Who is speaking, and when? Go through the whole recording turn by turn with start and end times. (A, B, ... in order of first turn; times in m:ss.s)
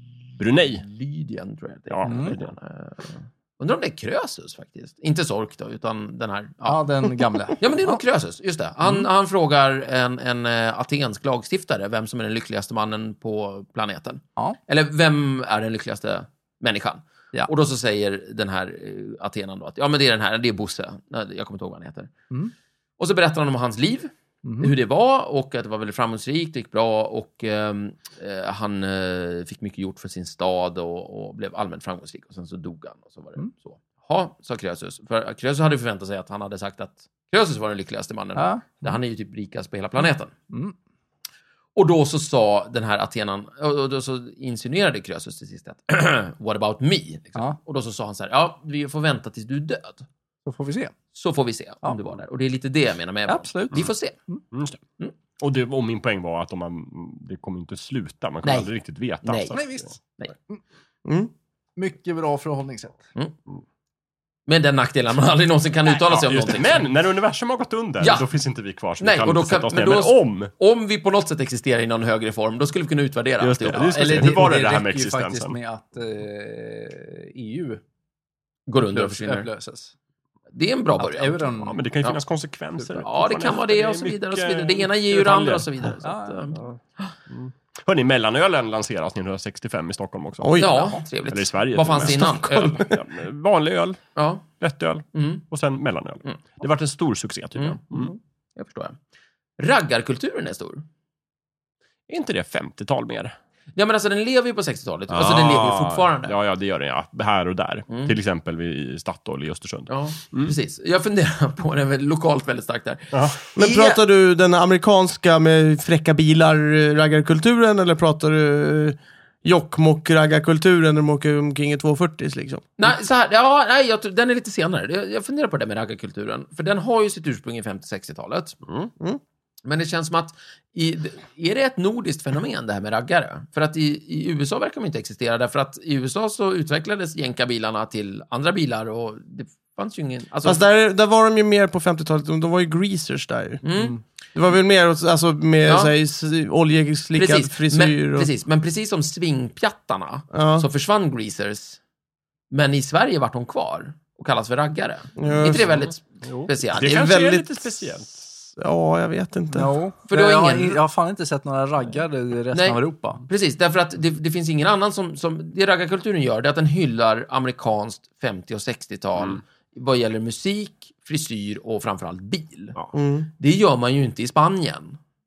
0:00.4-0:00.8 A
0:00.6-0:06.8 B
0:01.9-0:02.5 A
0:02.0-0:02.4 C
0:06.6-0:08.0 C
0:07.6-0:22.1 B
0:23.0-0:40.3 B
0:24.4-0:24.7 C
0:38.4-0:39.0 C
0:41.7-0:50.1 B
0:50.4-0:50.9 C
0:51.1-0:54.2 B
0:53.3-0:54.4 C
0:54.5-0:54.8 A
0:55.4-0:59.8 A
0:58.4-0:58.7 B
0:59.2-0:59.6 B
0:59.5-0:59.9 C
1:01.0-1:01.3 D
1:01.8-1:03.1 C
1:04.5-1:06.8 B
1:06.0-1:10.5 A
1:08.0-1:08.3 B
1:09.0-1:14.7 B
1:13.4-1:15.6 A
1:13.7-1:17.8 C
1:18.7-1:19.5 B
1:18.8-1:19.9 C
1:20.5-1:22.2 B
1:21.0-1:21.9 C
1:21.6-1:25.9 A
1:22.8-1:23.1 C
1:23.0-1:27.1 B
1:26.0-1:26.6 C
1:27.3-1:34.0 A
1:30.4-1:31.0 D
1:30.6-1:32.9 B
1:32.0-1:32.9 D
1:34.2-1:34.4 B
1:34.6-1:38.1 A
1:35.1-1:35.4 B
1:37.6-1:39.0 B
1:39.6-1:40.8 B
1:42.1-1:43.4 A
1:43.7-1:46.4 B
1:45.1-1:50.5 A
1:47.9-1:48.2 B
1:49.9-1:54.0 B
1:53.1-1:53.4 A
1:53.6-2:02.7 D
2:02.8-2:08.6 B
2:08.6-2:08.9 A
2:09.6-2:20.6 B
2:20.4-2:23.7 D
2:23.6-2:24.0 B
2:24.3-2:28.3 D
2:25.6-2:25.9 B
2:27.2-2:31.8 B
2:30.3-2:30.7 D
2:32.5-2:37.1 B
2:35.2-2:35.7 D
2:35.5-2:38.2 A
2:36.7-2:37.7 D
2:38.5-2:39.7 D
2:39.5-2:43.2 C
2:40.1-2:40.8 B
2:42.5-2:52.8 B
2:52.9-2:53.3 D
2:53.4-2:55.0 B